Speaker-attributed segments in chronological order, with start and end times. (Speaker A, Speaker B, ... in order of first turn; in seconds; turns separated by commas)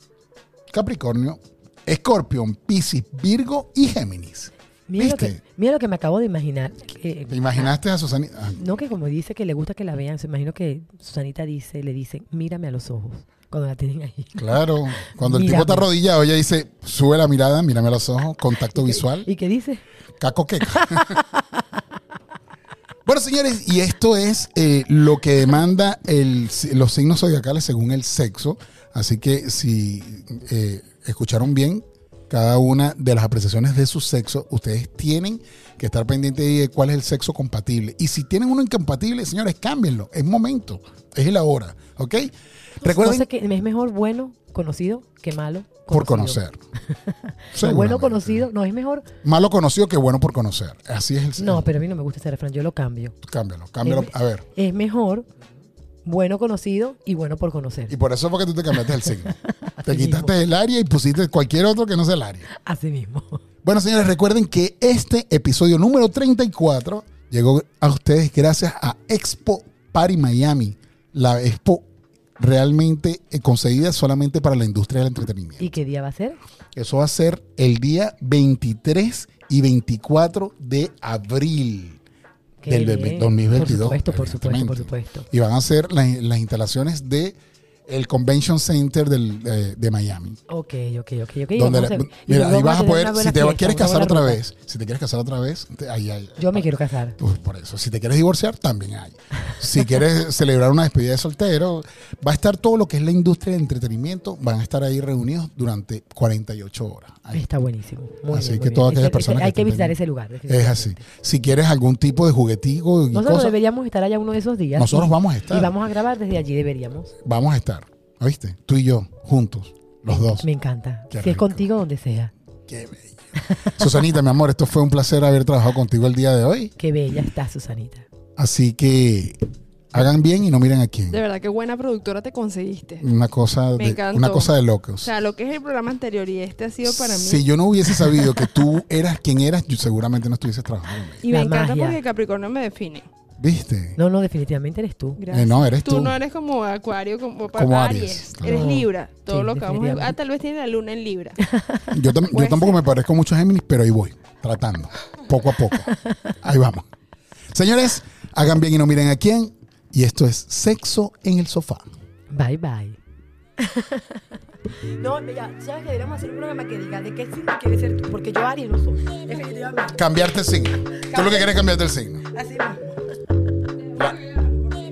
Speaker A: 0.7-5.4, Speaker B: 4.9-7.7, Speaker A: 7.3-8.6, Speaker B: 8.6-15.9, Speaker A: 14.3-19.3, Speaker B: 18.7-19.8, Speaker A: 20.2-21.2, Speaker B: 20.8-21.6, Speaker A: 23.1-43.3, Speaker B: 42.8-49.0, Speaker A: 45.9-46.6, Speaker A: 47.5-48.5, Speaker A: 49.2-51.7, Speaker B: 51.4-53.1, Speaker A: 53.2-54.5, Speaker B: 53.8-55.3, Speaker B: 56.0-57.9, Speaker A: 57.9-62.5, Speaker B: 58.9-60.3, Speaker B: 62.5-63.4, Speaker A: 63.6-71.8, Speaker A: 72.4-75.7, Speaker B: 75.6-76.4, Speaker A: 76.7-82.0, Speaker B: 82.6-85.3, Speaker A: 82.7-87.3, Speaker A: 87.9-90.4, Speaker B: 90.5-94.4, Speaker A: 91.5-96.7, Speaker B: 96.4-97.2, Speaker A: 97.2-107.4, Speaker B: 107.3-111.0, Speaker A: 108.3-113.5, Speaker B: 113.1-117.1, Speaker A: 114.8-115.7, Speaker A: 117.2-120.5, Speaker B: 120.4-122.3, Speaker A: 121.1-121.7, Speaker A: 122.7-126.7, Speaker B: 123.5-123.7, Speaker B: 126.8-128.1, Speaker A: 128.4-129.4, Speaker A: 129.9-131.2, Speaker C: 131.1-133.0, Speaker A: 133.0-135.1, Speaker C: 133.8-137.5, Speaker A: 136.8-141.2, Speaker C: 141.2-143.1, Speaker B: 141.3-142.0, Speaker A: 143.4-144.0, Speaker B: 144.0-145.2, Speaker C: 145.2-151.4, Speaker A: 145.3-146.2, Speaker A: 147.5-148.7, Speaker B: 148.4-150.2, Speaker B: 151.5-152.8, Speaker A: 151.9-155.9, Speaker A: 156.4-156.8, Speaker A: 157.5-161.8, Speaker B: 162.3-163.0, Speaker B: 163.6-170.0, Speaker A: 169.9-172.2, Speaker B: 171.0-171.7, Speaker B: 172.3-173.3